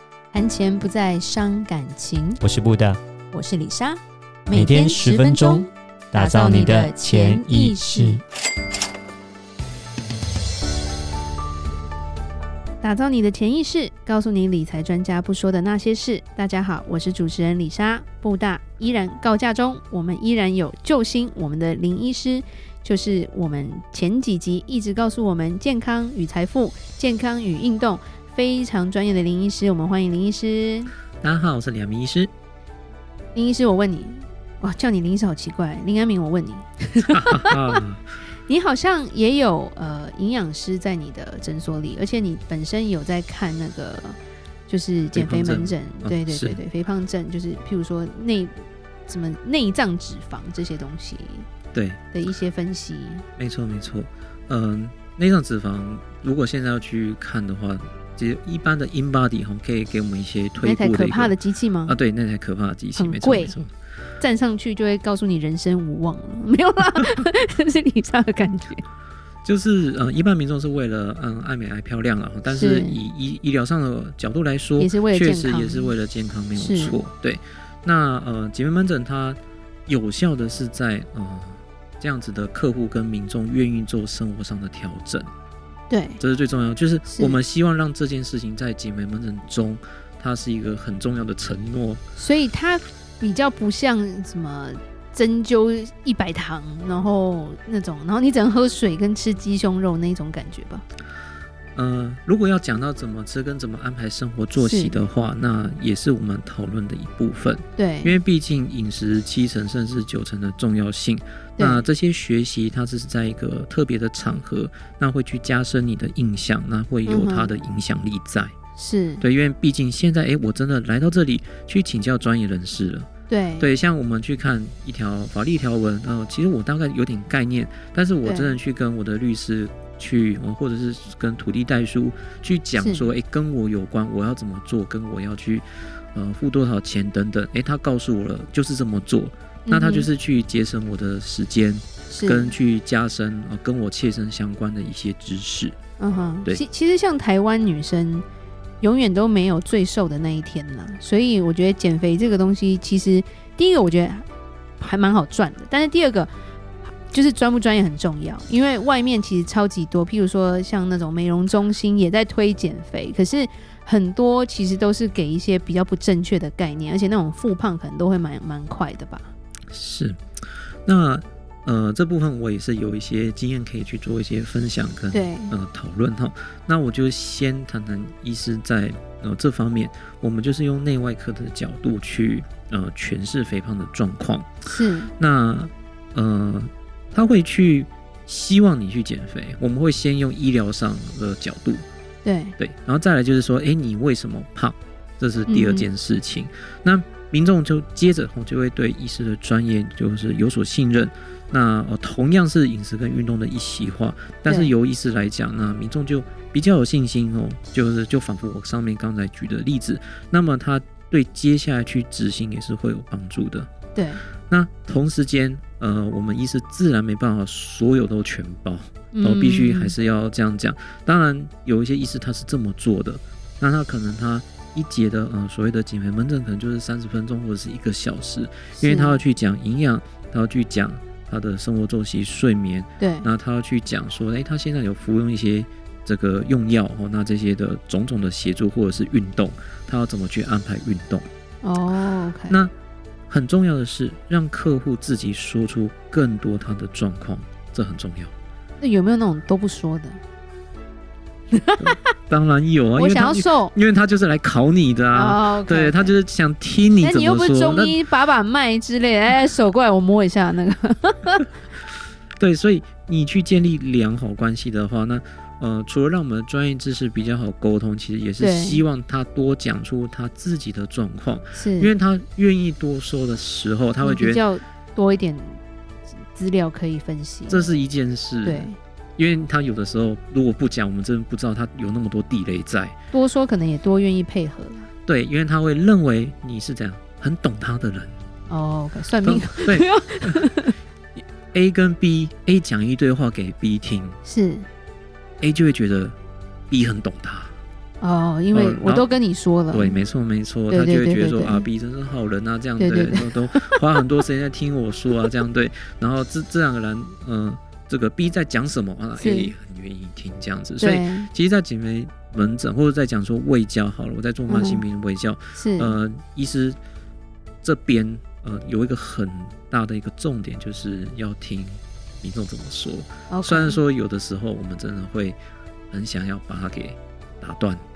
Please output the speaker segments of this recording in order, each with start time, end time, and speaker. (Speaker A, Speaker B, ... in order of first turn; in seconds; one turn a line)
Speaker A: 0.3-2.4
Speaker B: 2.4-3.0
Speaker A: 3.3-8.2
Speaker B: 4.5-8.2
Speaker A: 12.8-30.9
Speaker C: 31.2-32.3
Speaker A: 33.3-37.8
Speaker C: 37.0-38.0
Speaker A: 38.5-51.5
Speaker C: 45.1-46.6
Speaker C: 51.7-52.0
Speaker A: 52.1-53.2
Speaker C: 53.4-61.3
Speaker A: 60.6-62.0
Speaker C: 61.9-63.7
Speaker A: 62.9-63.6
Speaker A: 64.2-68.8
Speaker C: 69.4-85.3
Speaker A: 72.5-73.0
Speaker A: 74.8-75.9
Speaker A: 76.5-77.0
Speaker A: 85.9-86.2
Speaker C: 86.2-92.0
Speaker A: 87.1-87.4
Speaker A: 92.2-100.8
Speaker C: 101.7-118.5
Speaker A: 104.5-105.0
Speaker A: 107.8-108.2
Speaker A: 111.6-111.9
Speaker A: 117.0-117.5
Speaker A: 118.8-119.2
Speaker C: 119.2-145.8
Speaker A: 123.3-123.7
Speaker A: 128.2-128.6
Speaker A: 132.7-133.1
Speaker A: 139.7-140.1
Speaker A: 142.1-142.5
Speaker A: 146.0-148.2
Speaker A: 148.8-154.2
Speaker A: 154.8-156.3
Speaker A: 157.1-169.3
Speaker C: 169.7-170.2
Speaker C: 170.8-184.6
Speaker A: 175.1-175.6
Speaker A: 184.7-185.1
Speaker C: 185.2-191.8
Speaker A: 192.2-192.6
Speaker C: 192.6-213.7
Speaker A: 195.5-195.9
Speaker A: 204.4-204.7
Speaker A: 213.9-214.2
Speaker C: 214.5-241.2
Speaker A: 219.1-219.9
Speaker A: 228.8-229.2
Speaker A: 233.0-233.3
Speaker A: 241.6-242.6
Speaker C: 243.3-248.3
Speaker A: 248.8-250.2
Speaker A: 251.5-252.0
Speaker C: 251.8-258.0
Speaker A: 252.9-253.7
Speaker A: 255.1-256.2
Speaker A: 257.0-261.6
Speaker C: 262.4-274.4
Speaker A: 268.4-268.8
Speaker A: 271.5-271.9
Speaker A: 274.0-277.7
Speaker C: 277.5-282.9
Speaker A: 278.4-278.8
Speaker A: 283.1-284.9
Speaker C: 285.1-288.2
Speaker A: 288.5-290.8
Speaker C: 289.2-290.4
Speaker C: 291.5-294.2
Speaker A: 294.2-294.7
Speaker C: 295.4-296.1
Speaker C: 296.7-297.5
Speaker A: 298.0-300.0
Speaker C: 298.5-299.1
Speaker C: 299.7-316.8
Speaker A: 300.7-301.6
Speaker A: 302.8-303.8
Speaker A: 309.1-309.5
Speaker A: 310.8-311.3
Speaker A: 314.5-314.8
Speaker A: 315.5-316.0
Speaker C: 317.6-325.4
Speaker A: 323.3-323.8
Speaker C: 325.9-327.8